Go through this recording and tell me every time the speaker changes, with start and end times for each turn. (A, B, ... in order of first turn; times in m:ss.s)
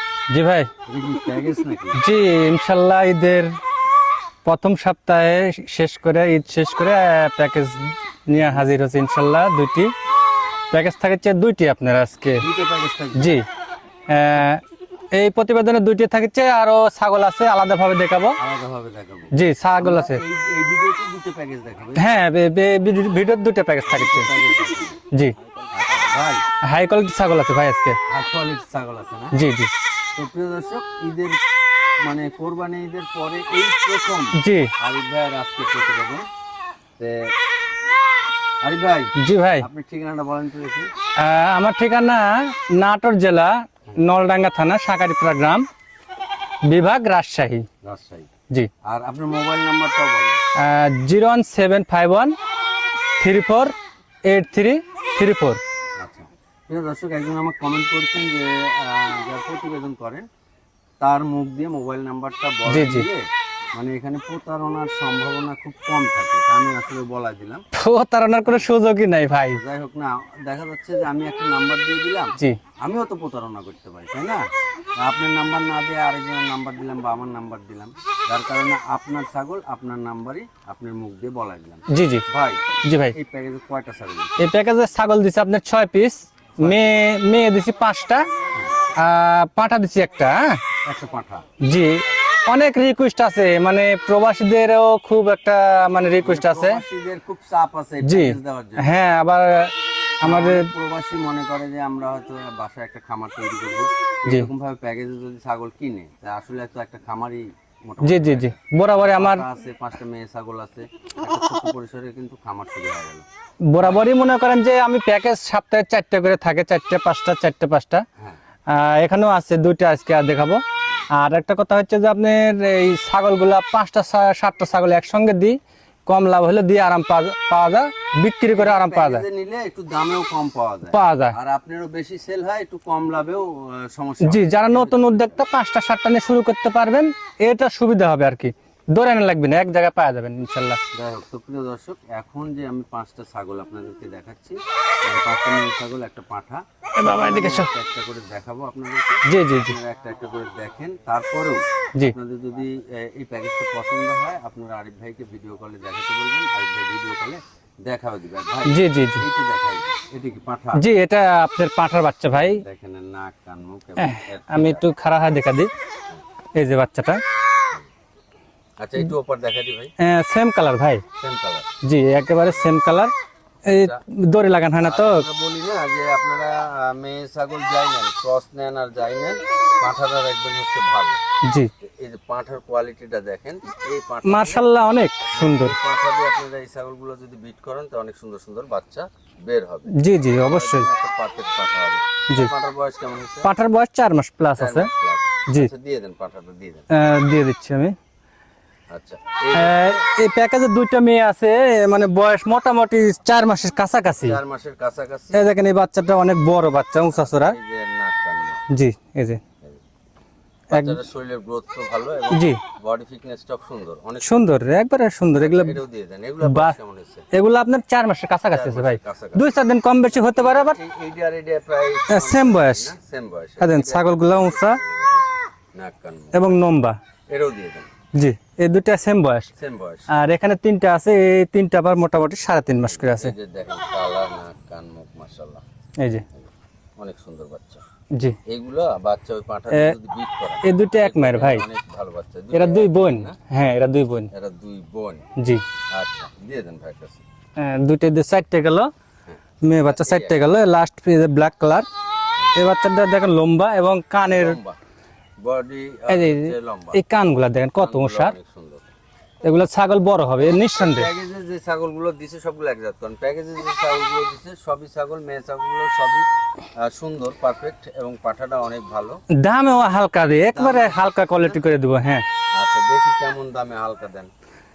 0:00.3-0:00.7 A
0:00.8-0:02.0 B
0:02.0-0:03.5 A
0:04.4-0:09.9 A
0:08.3-0:08.6 B
0:10.7-0:12.4 A
0:12.3-0:13.4 B
0:13.2-0:13.4 A
0:14.1-0:18.4 A
0:18.4-0:22.2 B
0:19.3-0:20.2 A
0:22.0-0:24.3 A
0:23.9-0:25.0 B
0:25.7-0:26.4 B
0:26.6-0:28.0 A
0:28.1-0:29.4 B
0:29.3-0:29.7 A
0:30.1-0:31.4 B
0:32.0-0:36.2 B
0:34.4-0:34.7 A
0:37.0-0:37.3 B
0:38.6-0:40.9 B
0:39.2-0:39.6 A
0:41.2-0:45.6 A
0:46.6-0:47.6 A
0:47.8-0:48.3 B
0:48.8-0:50.4 B
0:50.6-0:52.3 A
0:53.2-0:53.7 A
0:54.2-0:55.6 A
0:56.0-1:00.3 B
1:01.0-1:07.6 B
1:02.7-1:03.1 A
1:07.7-1:09.6 A
1:09.4-1:14.4 B
1:15.0-1:24.4 B
1:21.9-1:22.2 A
1:22.8-1:23.2 A
1:24.4-1:28.3 A
1:26.6-1:26.9 B
1:28.9-1:30.6 A
1:30.8-1:31.4 B
1:31.6-1:36.8 A
1:36.2-1:38.9 B
1:38.0-1:40.7 A
1:40.2-1:53.2 B
1:48.0-1:49.4 A
1:53.7-1:58.0 A
1:58.7-2:00.6 A
2:01.1-2:09.2 A
2:08.5-2:15.4 B
2:10.9-2:11.3 A
2:14.2-2:20.8 A
2:20.9-2:40.8 B
2:27.0-2:27.7 A
2:29.3-2:29.8 A
2:38.7-2:39.2 A
2:40.7-2:42.6 A
2:42.3-2:44.8 B
2:44.0-2:45.7 A
2:46.5-2:47.2 A
2:48.8-2:49.9 B
2:50.0-2:51.0 A
2:51.2-2:51.7 B
2:51.8-2:53.1 A
2:53.7-2:54.0 B
2:53.7-2:55.2 A
2:54.8-3:01.2 B
3:01.8-3:04.6 B
3:04.2-3:05.7 A
3:05.3-3:13.5 B
3:09.9-3:10.9 A
3:13.4-3:14.9 A
3:14.5-3:16.8 B
3:16.9-3:18.0 A
3:18.9-3:20.0 B
3:19.5-3:24.4 A
3:24.2-3:25.5 B
3:25.3-3:27.6 A
3:27.1-3:28.6 B
3:28.7-3:29.4 A
3:30.7-3:31.0 A
3:30.7-3:34.4 B
3:32.3-3:32.6 A
3:34.2-3:35.8 A
3:35.3-3:37.2 B
3:36.4-3:36.7 A
3:37.3-3:40.8 A
3:38.5-3:46.6 B
3:42.1-3:42.9 A
3:43.6-3:44.8 A
3:46.3-3:47.0 A
3:47.3-3:47.9 B
3:48.1-3:49.5 A
3:49.5-3:50.1 B
3:50.1-3:53.3 A
3:52.9-3:55.6 B
3:56.0-3:56.2 A
3:56.3-3:57.8 B
3:58.4-4:03.4 B
4:00.6-4:01.6 A
4:02.5-4:04.3 A
4:04.3-4:05.2 B
4:05.4-4:05.6 A
4:05.9-4:07.2 B
4:07.6-4:08.9 A
4:09.2-4:10.4 B
4:09.6-4:11.9 A
4:12.5-4:14.6 A
4:14.2-4:14.8 B
4:15.4-4:17.0 B
4:16.1-4:18.3 A
4:17.8-4:18.9 B
4:19.4-4:21.1 A
4:20.7-4:26.2 B
4:26.8-4:29.2 B
4:29.4-4:32.2 A
4:30.5-4:31.6 B
4:32.5-4:34.3 B